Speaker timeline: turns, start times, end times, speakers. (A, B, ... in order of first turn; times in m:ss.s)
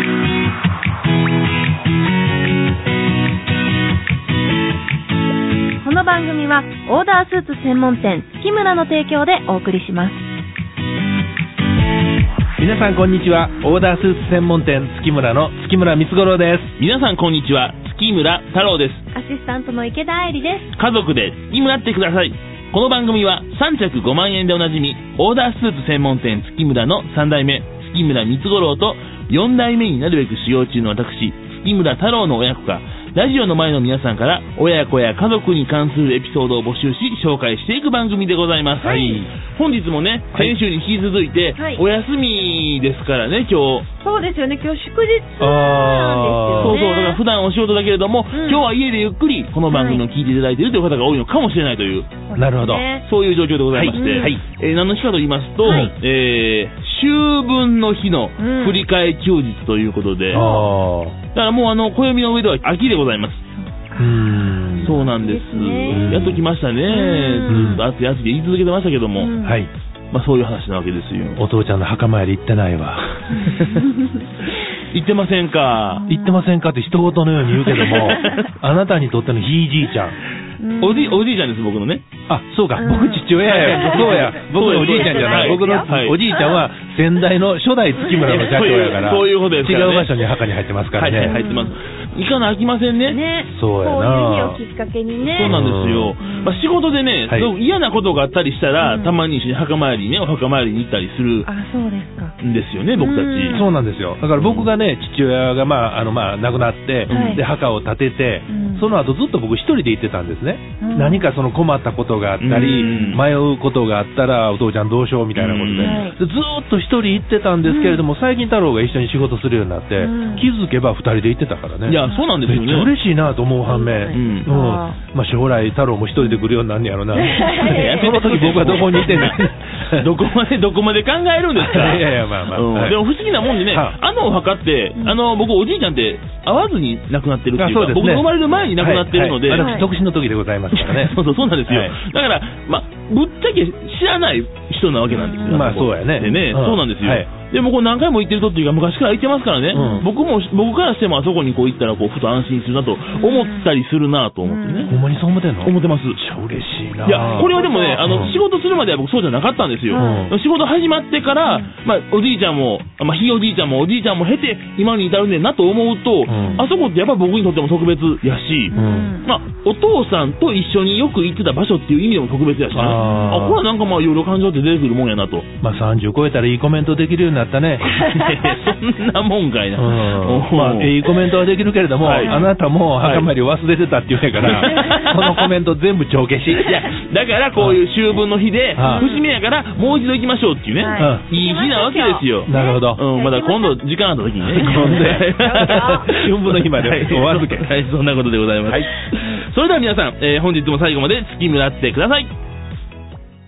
0:05.8-0:10.2 A
0:12.6-0:16.8 B
0:16.8-0:19.0 C
0:19.1-0:20.7 A
0:20.8-0:43.9 C
0:38.8-0:39.3 B
0:41.6-0:41.8 A
0:44.0-0:47.2 A
0:45.4-0:46.8 B
0:46.6-0:52.2 C
0:48.3-0:48.6 A
0:49.7-0:50.0 A
0:52.3-0:53.0 A
0:52.4-0:52.8 B
0:53.0-1:00.4 C
0:53.7-0:54.4 B
0:53.9-0:54.3 A
0:55.6-0:55.9 A
0:58.4-0:58.8 A
1:00.3-1:01.2 B
1:00.3-1:00.7 A
1:01.3-1:03.4 C
1:03.6-1:06.3 A
1:04.0-1:05.0 B
1:04.8-1:09.3 C
1:05.9-1:06.4 B
1:06.9-1:07.8 A
1:07.5-1:07.8 B
1:09.2-1:09.6 A
1:09.4-1:09.7 B
1:10.1-1:11.4 C
1:11.4-1:13.4 B
1:13.3-1:13.8 C
1:13.4-1:14.1 A
1:14.8-1:16.0 C
1:15.9-1:16.4 A
1:16.1-1:20.2 B
1:17.6-1:18.4 C
1:18.1-1:18.4 A
1:20.6-1:21.2 A
1:20.8-1:22.1 C
1:22.3-1:31.4 B
1:22.7-1:26.6 A
1:23.4-1:26.2 C
1:28.0-1:28.7 A
1:28.3-1:30.2 C
1:30.9-1:33.2 C
1:31.2-1:31.8 A
1:33.0-1:35.5 A
1:33.5-1:34.6 B
1:35.3-1:41.5 C
1:35.4-1:36.1 B
1:36.2-1:36.6 A
1:38.8-1:39.2 A
1:41.4-1:42.3 A
1:42.4-1:43.6 C
1:43.0-1:43.7 A
1:43.5-2:10.0 B
1:44.4-1:44.7 C
1:47.1-1:47.4 C
1:47.1-1:47.4 A
1:48.5-1:48.8 A
1:50.8-1:51.3 A
1:52.4-1:53.2 C
1:52.9-1:53.2 A
1:55.3-1:56.0 C
1:55.8-1:56.2 A
1:57.6-1:58.0 A
2:00.0-2:00.5 A
2:01.8-2:02.9 C
2:03.7-2:05.0 A
2:04.1-2:04.5 C
2:06.2-2:06.5 A
2:07.2-2:08.2 A
2:07.6-2:19.7 C
2:11.6-2:13.0 B
2:13.6-2:14.0 B
2:17.6-2:22.0 B
2:19.5-2:19.9 A
2:20.7-2:35.0 C
2:25.1-2:25.6 A
2:25.4-2:27.3 B
2:29.7-2:30.0 B
2:29.7-2:30.1 A
2:33.2-2:33.7 A
2:34.4-2:34.9 A
2:34.9-2:38.3 B
2:35.6-2:36.2 C
2:37.0-2:55.5 C
2:37.1-2:38.4 A
2:39.9-2:40.3 A
2:39.9-2:40.3 B
2:41.4-2:41.7 A
2:46.3-2:46.6 B
2:46.3-2:46.7 A
2:48.7-2:49.3 A
2:48.7-2:49.1 B
2:52.7-2:53.6 B
2:52.9-2:53.5 A
2:55.6-2:57.9 B
2:57.9-3:01.2 C
2:59.8-3:06.7 B
3:02.0-3:02.4 C
3:02.2-3:02.5 A
3:03.0-3:03.3 C
3:04.4-3:05.5 C
3:04.7-3:05.0 A
3:06.6-3:22.3 C
3:08.8-3:09.1 B
3:08.8-3:09.3 A
3:10.8-3:13.8 A
3:11.0-3:11.2 B
3:12.4-3:13.0 B
3:14.5-3:17.7 B
3:14.5-3:16.1 A